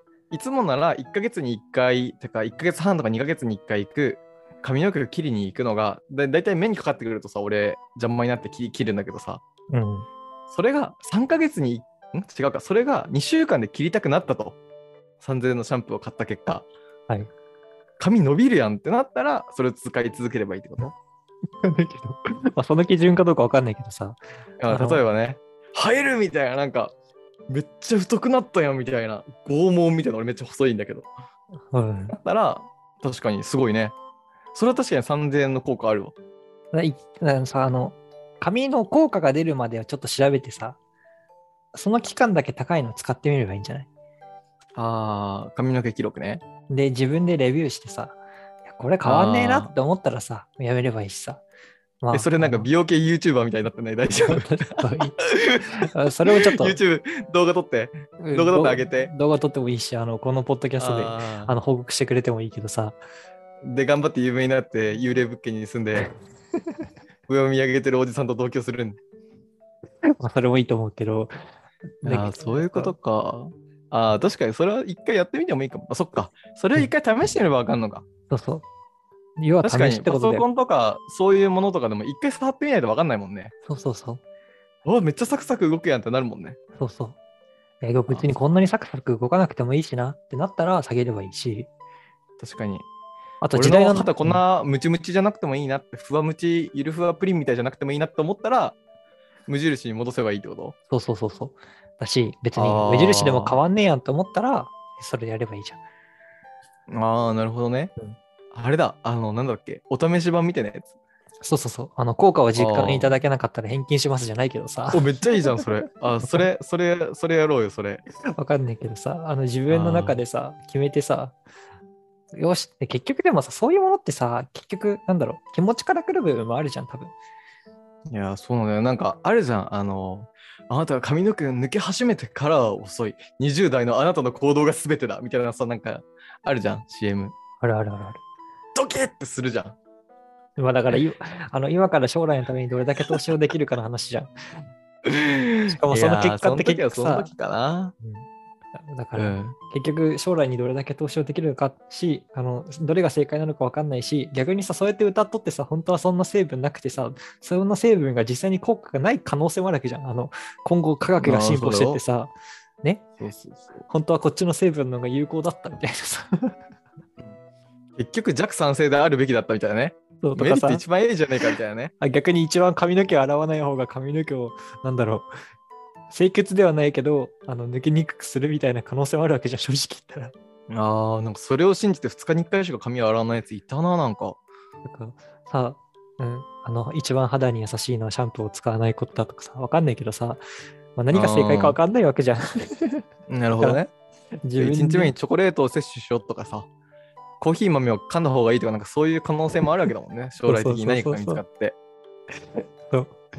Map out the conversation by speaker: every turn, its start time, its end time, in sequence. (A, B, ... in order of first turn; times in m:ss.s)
0:00.3-0:09.4 A
0:09.7-0:10.1 B
0:10.5-0:14.6 A
0:15.2-0:16.6 A
0:18.0-0:20.9 A
0:21.6-0:25.0 B
0:24.6-0:26.9 A
0:27.5-0:31.1 A
0:31.7-0:32.2 B
0:32.1-0:33.9 A
0:34.5-0:36.1 A
0:36.7-0:40.8 B
0:41.7-0:43.9 B
0:44.8-0:46.4 A
0:46.7-0:51.4 B
0:49.0-0:49.7 A
0:52.0-0:52.7 B
0:52.1-0:59.1 A
0:54.2-0:56.8 B
0:58.2-1:03.0 B
1:00.8-1:01.5 A
1:03.6-1:06.1 A
1:07.3-1:09.0 A
1:10.1-1:11.3 B
1:12.0-1:12.9 B
1:12.0-1:18.0 A
1:18.3-1:18.6 B
1:19.4-1:20.4 B
1:19.6-1:23.5 A
1:23.6-1:24.2 B
1:24.8-1:26.6 A
1:26.8-1:27.2 B
1:27.8-1:31.7 B
1:32.4-1:32.9 A
1:33.4-1:34.4 B
1:33.5-1:38.8 A
1:39.5-1:40.8 A
1:40.9-1:45.8 B
1:42.6-1:43.6 A
1:46.9-1:47.9 A
1:48.5-1:50.9 A
1:51.4-1:55.2 B
1:52.6-1:53.2 A
1:54.9-1:58.0 A
1:58.2-2:01.3 B
1:59.7-2:00.2 A
2:02.3-2:07.1 B
2:08.1-2:17.3 A
2:17.6-2:18.2 B
2:18.7-2:19.8 A
2:20.6-2:24.3 B
2:25.0-2:27.9 A
2:25.7-2:27.3 B
2:28.0-2:42.3 B
2:29.2-2:29.6 A
2:41.2-2:42.0 A
2:43.2-2:43.8 A
2:43.9-2:46.5 B
2:48.0-2:51.9 A
2:50.2-2:50.8 B
2:52.0-2:55.3 B
2:56.1-3:00.3 B
3:00.7-3:04.4 A
3:04.8-3:10.4 B
3:11.0-3:13.0 B
3:11.1-3:11.8 A
3:13.3-3:13.9 A
3:14.4-3:15.1 B
3:14.6-3:16.7 A
3:17.4-3:21.7 A
3:20.4-3:21.4 B
3:22.3-3:23.2 B